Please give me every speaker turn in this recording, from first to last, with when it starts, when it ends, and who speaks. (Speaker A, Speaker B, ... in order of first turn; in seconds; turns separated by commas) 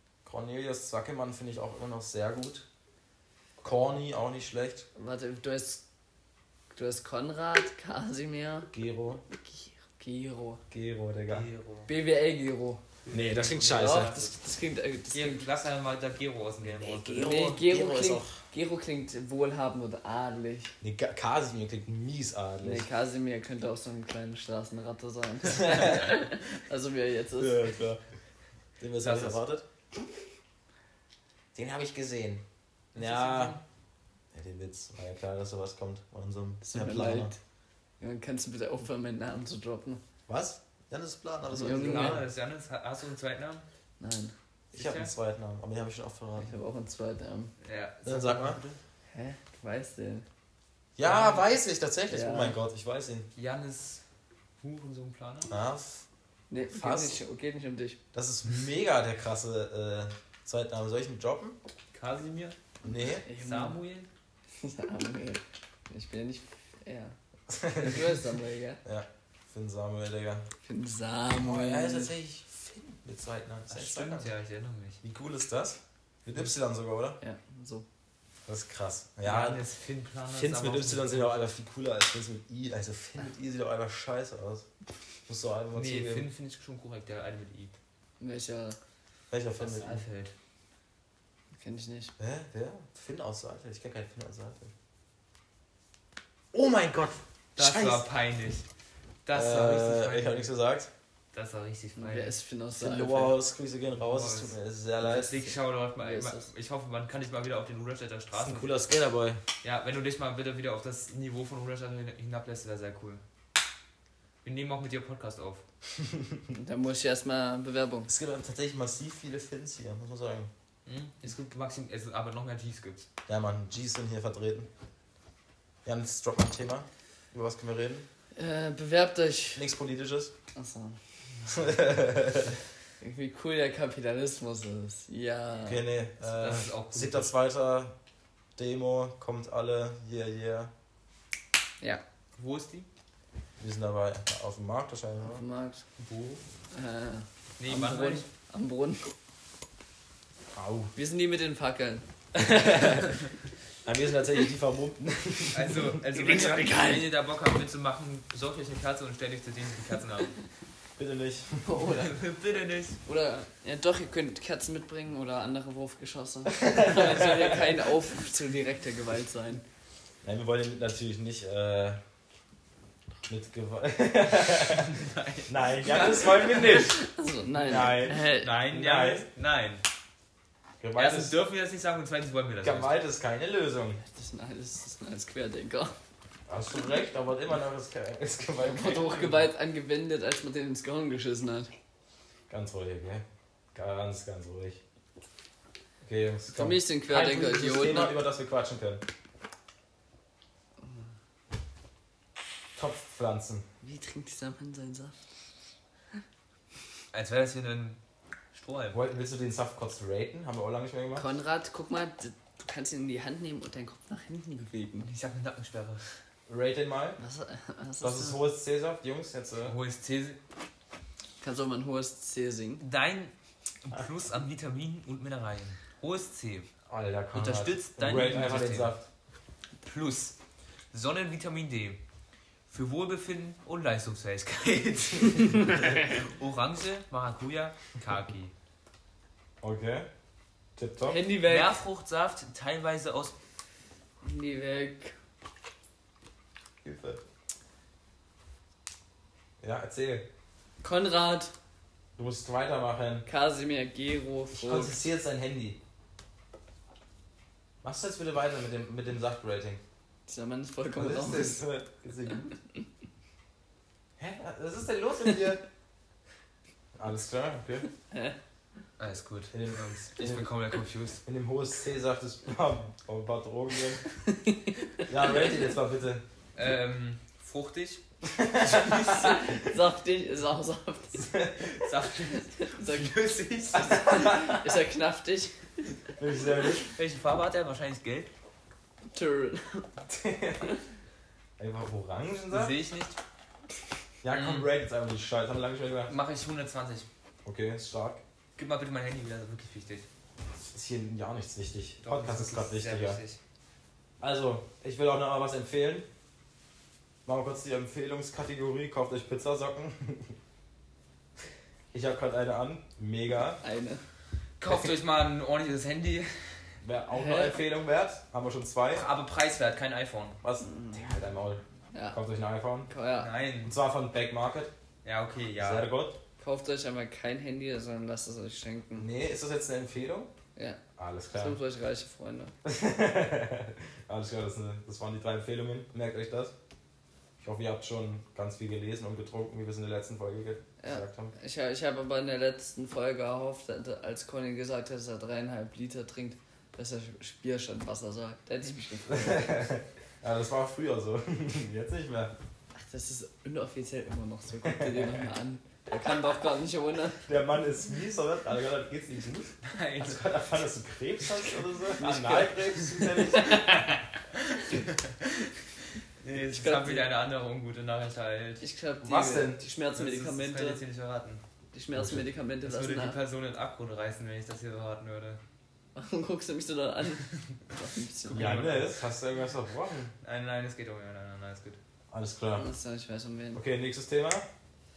Speaker A: 0.2-2.7, Speaker A: 3.6-4.9, Speaker B: 5.0-5.8, Speaker B: 6.7-8.7, Speaker A: 8.7-9.2, Speaker B: 9.3-10.6, Speaker A: 10.7-11.5, Speaker C: 11.3-11.9, Speaker B: 11.9-12.8, Speaker C: 13.1-14.4, Speaker A: 13.1-14.1, Speaker B: 13.7-15.4, Speaker C: 15.1-17.2, Speaker A: 16.7-18.4, Speaker B: 16.9-20.7, Speaker A: 20.8-22.9, Speaker B: 22.6-27.6, Speaker A: 25.5-26.2, Speaker A: 27.4-28.0, Speaker A: 28.8-29.6, Speaker C: 29.0-29.4, Speaker A: 31.5-32.4, Speaker A: 33.0-33.6, Speaker C: 33.0-33.6, Speaker A: 34.3-37.3, Speaker B: 36.6-37.4, Speaker B: 38.0-40.0, Speaker A: 40.3-42.3, Speaker B: 41.5-42.2, Speaker C: 41.6-43.6, Speaker B: 44.0-44.3, Speaker C: 44.7-45.1, Speaker A: 44.7-46.6, Speaker B: 46.4-47.5, Speaker C: 47.6-48.8, Speaker A: 48.0-48.6, Speaker B: 49.1-50.3, Speaker A: 51.0-53.3, Speaker C: 51.0-51.5, Speaker B: 52.1-52.6, Speaker C: 53.4-54.0, Speaker C: 54.6-55.5, Speaker A: 55.5-56.0, Speaker B: 56.5-58.0, Speaker A: 56.7-57.2, Speaker A: 58.1-61.6, Speaker C: 61.9-62.6, Speaker A: 62.8-63.2, Speaker B: 62.9-63.8, Speaker C: 63.4-64.1, Speaker B: 64.5-68.8, Speaker A: 67.5-68.2, Speaker A: 68.8-70.5, Speaker B: 70.6-72.1, Speaker A: 71.3-74.3, Speaker C: 73.7-75.0, Speaker A: 75.0-77.2, Speaker B: 77.2-77.9, Speaker A: 78.5-79.6, Speaker C: 79.2-81.4, Speaker A: 80.3-84.7, Speaker A: 85.3-86.3, Speaker C: 85.7-87.8, Speaker B: 88.2-88.8, Speaker A: 89.3-90.0, Speaker C: 89.6-90.3, Speaker B: 91.5-92.1, Speaker A: 92.2-94.7, Speaker A: 96.5-98.0, Speaker C: 97.6-98.7, Speaker C: 99.3-100.5, Speaker A: 99.3-100.9, Speaker C: 101.3-102.3, Speaker B: 102.0-103.4, Speaker A: 102.8-105.5, Speaker C: 104.0-108.7, Speaker B: 106.0-106.5, Speaker A: 108.3-109.4, Speaker C: 109.6-113.2, Speaker C: 114.4-115.6, Speaker B: 116.5-118.1, Speaker A: 118.1-120.5, Speaker C: 120.9-123.1, Speaker A: 123.3-124.7, Speaker A: 125.8-128.1, Speaker B: 128.3-129.7, Speaker A: 129.6-130.3, Speaker B: 130.6-131.0, Speaker A: 131.5-132.6, Speaker B: 133.0-135.9, Speaker A: 135.7-137.9, Speaker C: 136.2-137.3, Speaker A: 138.6-140.7, Speaker C: 142.4-142.9, Speaker A: 143.6-145.4, Speaker B: 145.2-145.8, Speaker C: 146.0-146.4, Speaker B: 146.7-149.1, Speaker C: 147.6-148.3, Speaker A: 150.6-150.9, Speaker B: 150.9-153.0, Speaker A: 152.3-153.1, Speaker A: 153.8-156.0, Speaker C: 155.5-160.4, Speaker B: 156.1-157.1, Speaker A: 161.0-161.7, Speaker B: 161.6-162.2, Speaker C: 161.9-163.0, Speaker B: 163.1-169.6, Speaker A: 166.6-167.8, Speaker A: 170.2-172.0, Speaker A: 173.2-179.3, Speaker C: 174.7-175.5, Speaker B: 176.1-178.5, Speaker C: 178.3-179.8, Speaker A: 180.8-181.4, Speaker C: 180.9-182.9, Speaker A: 182.6-184.0, Speaker B: 184.1-186.0, Speaker A: 186.5-189.5, Speaker B: 188.6-191.7, Speaker A: 192.5-194.8, Speaker A: 196.0-199.0, Speaker B: 196.5-198.2, Speaker B: 200.8-201.1, Speaker A: 202.8-203.7, Speaker B: 203.8-205.2, Speaker C: 207.1-208.0, Speaker C: 208.5-209.0, Speaker A: 208.9-211.3, Speaker B: 211.2-215.1, Speaker C: 215.1-216.2, Speaker A: 216.5-217.2, Speaker B: 217.2-218.4, Speaker A: 218.0-219.8, Speaker C: 219.6-220.4, Speaker B: 221.4-222.8, Speaker C: 222.8-223.3, Speaker C: 223.8-226.7, Speaker A: 226.9-229.1, Speaker C: 227.3-228.9, Speaker C: 229.8-230.4, Speaker C: 230.9-232.0, Speaker C: 232.7-238.5, Speaker A: 239.6-240.1, Speaker A: 240.8-241.2, Speaker B: 241.1-241.8, Speaker C: 241.5-243.3, Speaker B: 244.2-245.2, Speaker A: 246.8-247.2, Speaker A: 249.6-250.3, Speaker B: 250.8-251.5, Speaker A: 252.2-253.3, Speaker B: 253.3-255.0, Speaker A: 254.5-255.8, Speaker A: 257.8-259.8, Speaker B: 260.3-261.6, Speaker A: 260.9-262.5, Speaker A: 264.2-265.6, Speaker A: 267.0-267.9, Speaker B: 268.1-268.4, Speaker C: 269.0-271.2, Speaker A: 269.5-270.5, Speaker A: 271.2-274.1, Speaker B: 274.3-275.0, Speaker A: 275.1-276.2, Speaker C: 276.6-278.0, Speaker A: 278.3-279.6, Speaker C: 278.6-279.4, Speaker B: 279.0-281.4, Speaker A: 281.3-281.7, Speaker C: 281.8-284.1, Speaker B: 282.5-283.1, Speaker B: 283.7-286.0, Speaker A: 283.8-284.7, Speaker A: 286.2-286.9, Speaker C: 286.9-288.3, Speaker B: 289.1-289.9, Speaker A: 290.1-290.8, Speaker A: 291.6-292.8, Speaker C: 292.5-293.2, Speaker A: 294.2-296.1, Speaker C: 294.3-294.7, Speaker C: 296.1-297.1, Speaker A: 297.4-298.2, Speaker C: 298.6-300.1, Speaker A: 300.6-303.2, Speaker C: 302.0-303.4, Speaker A: 304.2-306.1, Speaker A: 307.3-310.4, Speaker A: 311.9-313.6, Speaker B: 313.6-314.0, Speaker C: 314.6-316.8, Speaker A: 316.8-319.1, Speaker B: 317.1-317.6, Speaker C: 318.9-320.4, Speaker A: 320.4-322.9, Speaker B: 320.6-321.0, Speaker B: 321.9-322.2, Speaker B: 322.9-323.3, Speaker C: 323.2-323.8, Speaker A: 323.6-324.7, Speaker C: 325.0-325.9, Speaker A: 325.6-326.2, Speaker B: 326.4-329.1, Speaker A: 329.0-330.3, Speaker A: 331.0-331.6, Speaker B: 331.3-332.5, Speaker A: 332.6-336.5, Speaker A: 337.4-341.3, Speaker B: 340.8-349.7, Speaker A: 349.1-352.3, Speaker B: 352.8-357.3, Speaker A: 354.6-355.2, Speaker A: 357.3-363.7, Speaker C: 359.6-360.4, Speaker C: 362.0-363.8, Speaker B: 363.3-363.8, Speaker C: 364.5-365.3, Speaker C: 366.2-368.6, Speaker B: 366.5-367.1, Speaker B: 368.6-370.8, Speaker A: 369.0-369.6, Speaker C: 369.9-371.4, Speaker B: 371.7-373.2, Speaker A: 371.9-372.2, Speaker C: 372.6-375.4, Speaker B: 376.0-378.7, Speaker C: 378.2-379.0, Speaker A: 378.3-380.1, Speaker C: 380.2-381.8, Speaker A: 382.1-382.7, Speaker B: 382.6-383.6, Speaker A: 383.5-384.5